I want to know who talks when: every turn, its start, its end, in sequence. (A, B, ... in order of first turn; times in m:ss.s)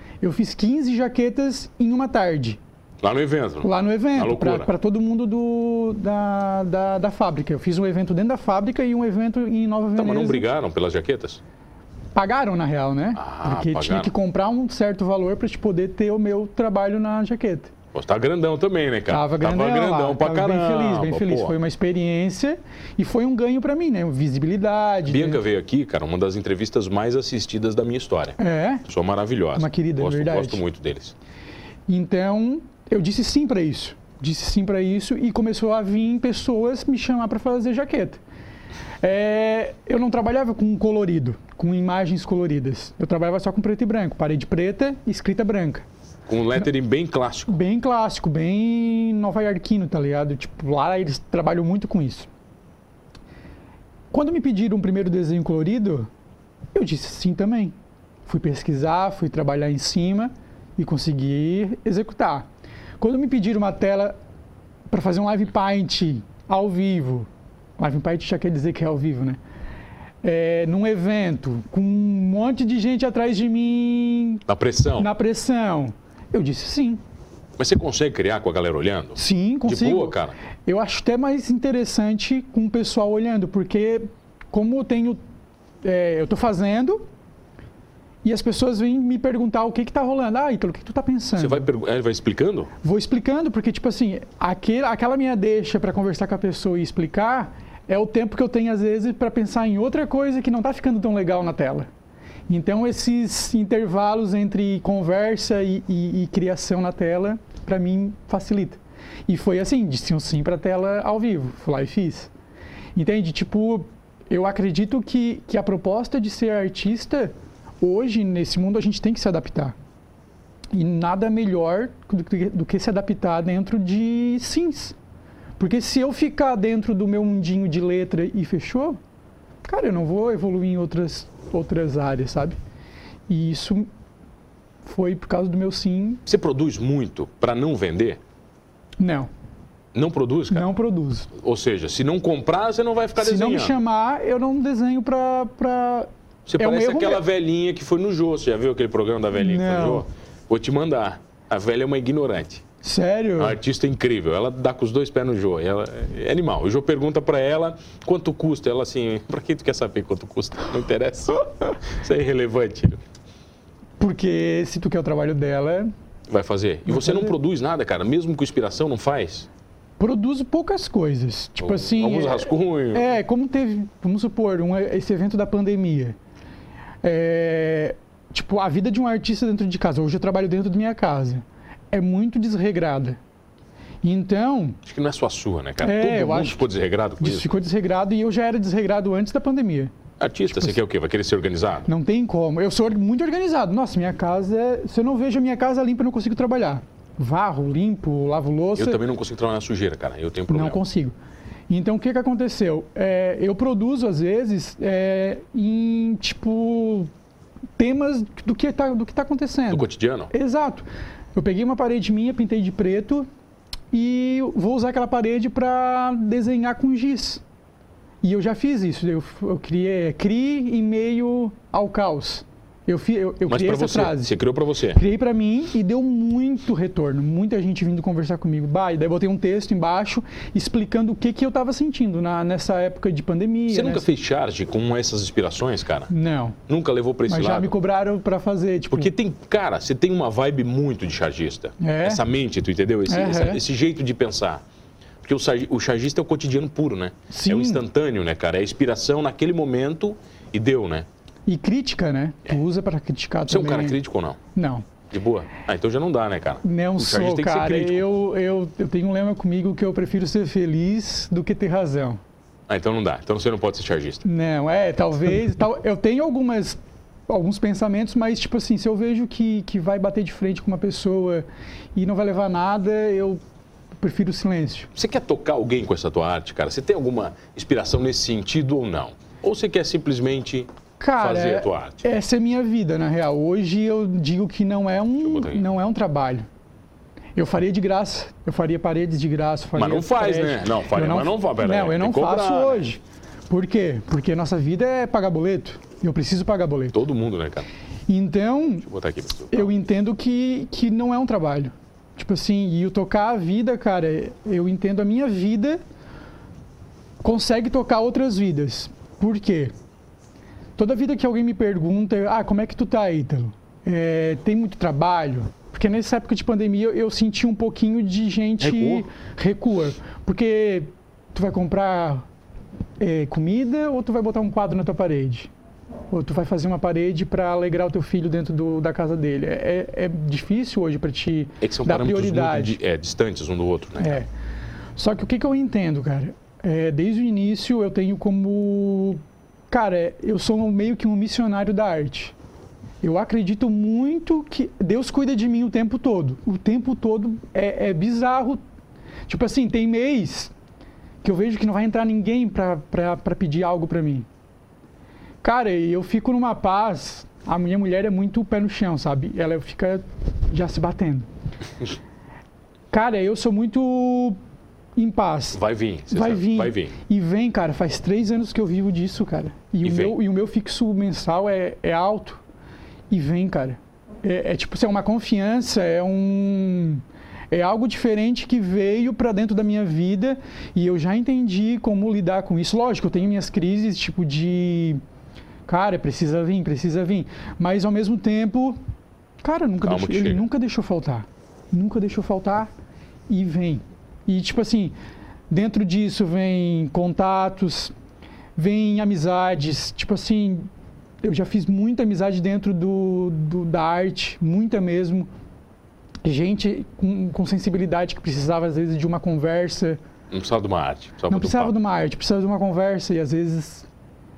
0:00.2-0:02.6 A
0:03.0-0:04.7 B
0:03.6-0:10.5 A
0:10.0-0:11.4 B
0:12.1-0:17.7 A
0:13.2-0:14.1 B
0:17.9-0:21.5 B
0:19.1-0:25.4 A
0:25.0-0:31.1 B
0:28.4-0:28.8 A
0:29.6-0:30.6 A
0:31.9-0:38.2 A
0:39.0-0:45.8 A
0:46.3-0:47.6 B
0:47.5-0:52.3 A
0:54.1-0:56.1 A
0:56.7-0:57.7 A
0:58.3-1:02.4 A
1:03.0-1:04.2 A
1:04.9-1:09.4 A
1:10.2-1:14.4 A
1:14.5-1:15.1 B
1:15.0-1:17.0 A
1:17.6-1:20.3 B
1:19.2-1:25.2 A
1:25.8-1:27.0 A
1:28.2-1:31.7 A
1:31.4-1:32.7 B
1:32.8-1:41.9 A
1:42.5-1:52.3 A
1:52.9-1:59.7 A
2:00.7-2:05.0 A
2:05.6-2:09.0 A
2:09.6-2:12.6 A
2:13.3-2:13.9 A
2:14.8-2:16.2 A
2:16.3-2:18.2 B
2:19.0-2:19.3 A
2:19.9-2:20.6 B
2:20.5-2:21.3 A
2:21.3-2:23.8 B
2:23.2-2:27.2 A
2:26.5-2:32.6 B
2:29.3-2:30.0 A
2:32.8-2:33.6 A
2:33.4-2:43.0 B
2:44.0-2:45.9 A
2:46.3-2:49.5 B
2:46.9-2:47.3 A
2:50.0-2:56.2 A
2:51.6-2:53.2 B
2:57.0-3:03.2 A
3:04.0-3:04.8 A
3:04.8-3:07.6 B
3:05.8-3:06.7 A
3:07.2-3:09.9 A
3:10.2-3:11.9 B
3:10.5-3:10.7 A
3:11.9-3:19.0 A
3:18.8-3:20.8 B
3:20.5-3:21.1 A
3:21.7-3:27.1 A
3:27.8-3:33.3 A
3:29.7-3:30.3 B
3:33.9-3:37.4 A
3:38.2-3:44.4 A
3:43.4-3:45.0 B
3:44.9-3:54.0 A
3:53.7-3:56.1 B
3:56.1-3:56.6 A
3:56.7-3:57.7 B
3:57.3-3:59.1 A
3:58.9-4:04.6 B
4:01.8-4:02.2 A
4:03.1-4:03.6 A
4:05.2-4:11.1 B
4:07.3-4:07.8 A
4:11.4-4:14.0 A
4:13.5-4:14.4 B
4:14.5-4:14.8 A
4:15.1-4:18.0 B
4:16.6-4:22.2 A
4:22.7-4:24.2 B
4:24.2-4:33.4 A
4:34.0-4:34.9 A
4:34.9-4:42.0 B
4:41.0-4:46.5 A
4:45.2-4:45.7 B
4:47.4-4:57.0 A
4:49.8-4:52.9 B
4:56.9-4:57.7 B
4:58.1-4:58.8 A
4:58.8-4:59.7 B
4:59.5-5:05.8 A
5:07.2-5:09.7 A
5:10.8-5:22.2 A
5:18.6-5:19.1 B
5:23.0-5:25.5 A
5:26.1-5:32.8 A
5:31.6-5:34.2 B
5:34.0-5:34.2 A
5:35.0-5:42.3 A
5:43.0-5:48.6 A
5:49.3-5:50.5 A
5:51.2-5:54.2 A
5:55.4-6:01.3 A
6:02.9-6:04.4 A
6:05.0-6:12.4 A
6:05.5-6:06.9 B
6:09.8-6:10.1 B
6:13.1-6:25.0 A
6:25.7-6:28.8 A
6:29.4-6:32.7 A
6:29.8-6:30.4 B
6:33.3-6:34.9 A
6:35.5-6:37.9 A
6:38.6-6:40.7 A
6:41.2-6:45.3 A
6:46.2-6:50.0 A
6:50.3-6:51.7 B
6:51.3-6:53.9 A